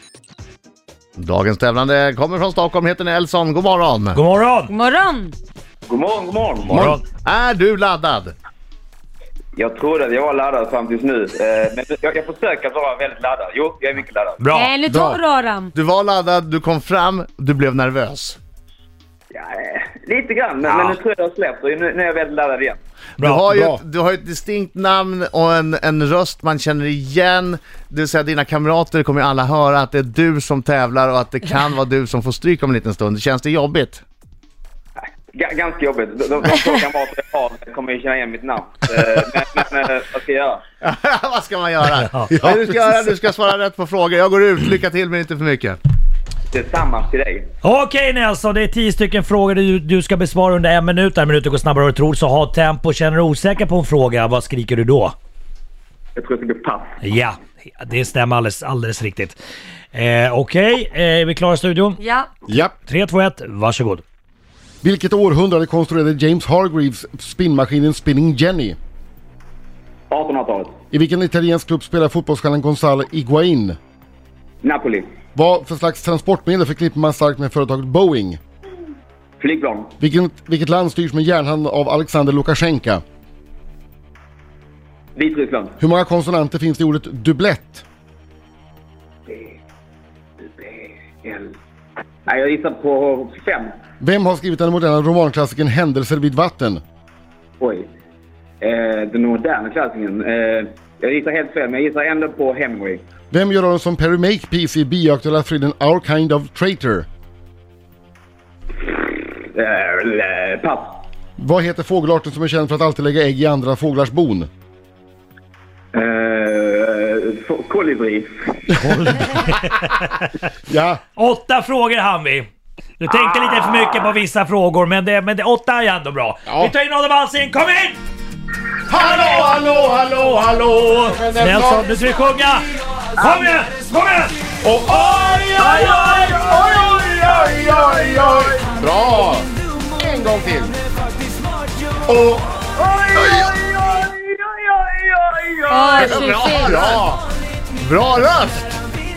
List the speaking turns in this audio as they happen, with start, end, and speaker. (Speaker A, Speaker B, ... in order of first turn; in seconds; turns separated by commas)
Speaker A: 1.2-4.2, Speaker B: 4.1-4.7, Speaker C: 4.7-5.3, Speaker D: 5.9-6.9, Speaker A: 6.7-8.3, Speaker B: 6.7-7.0, Speaker D: 9.6-14.4, Speaker B: 14.4-14.7, Speaker C: 14.5-15.7, Speaker E: 14.8-15.2, Speaker A: 15.7-18.4, Speaker D: 19.3-22.8, Speaker A: 20.6-21.0, Speaker B: 23.2-23.5, Speaker A: 23.2-34.0, Speaker E: 23.5-23.8, Speaker D: 35.3-40.6, Speaker A: 40.8-45.8, Speaker D: 46.5-47.5, Speaker B: 47.6-55.1, Speaker D: 56.1-56.9, Speaker B: 57.0-59.4, Speaker B: 59.9-62.0, Speaker C: 62.0-62.3, Speaker E: 62.5-62.7, Speaker B: 62.8-64.0, Speaker E: 64.8-68.8, Speaker D: 70.1-70.7, Speaker E: 70.9-73.8, Speaker D: 74.6-75.1, Speaker E: 75.3-78.4, Speaker D: 79.4-79.9, Speaker E: 80.0-83.0, Speaker D: 85.2-85.8, Speaker E: 85.8-87.8, Speaker D: 90.5-91.5, Speaker D: 92.2-93.7, Speaker E: 94.0-96.8, Speaker D: 97.6-97.9, Speaker D: 98.6-103.0, Speaker E: 103.3-107.1, Speaker D: 108.8-111.0, Speaker E: 111.4-114.5, Speaker D: 115.9-118.3, Speaker B: 118.8-120.3, Speaker E: 118.8-119.1, Speaker E: 120.7-121.0, Speaker B: 121.2-128.0, Speaker A: 128.9-131.7, Speaker E: 129.0-131.8, Speaker B: 130.9-134.4, Speaker D: 133.2-133.5, Speaker E: 134.6-140.8, Speaker D: 135.6-138.6, Speaker B: 135.6-136.3, Speaker E: 142.1-142.6, Speaker D: 142.7-146.7, Speaker C: 145.7-146.7, Speaker A: 145.9-147.1, Speaker E: 146.4-147.2, Speaker A: 147.8-148.7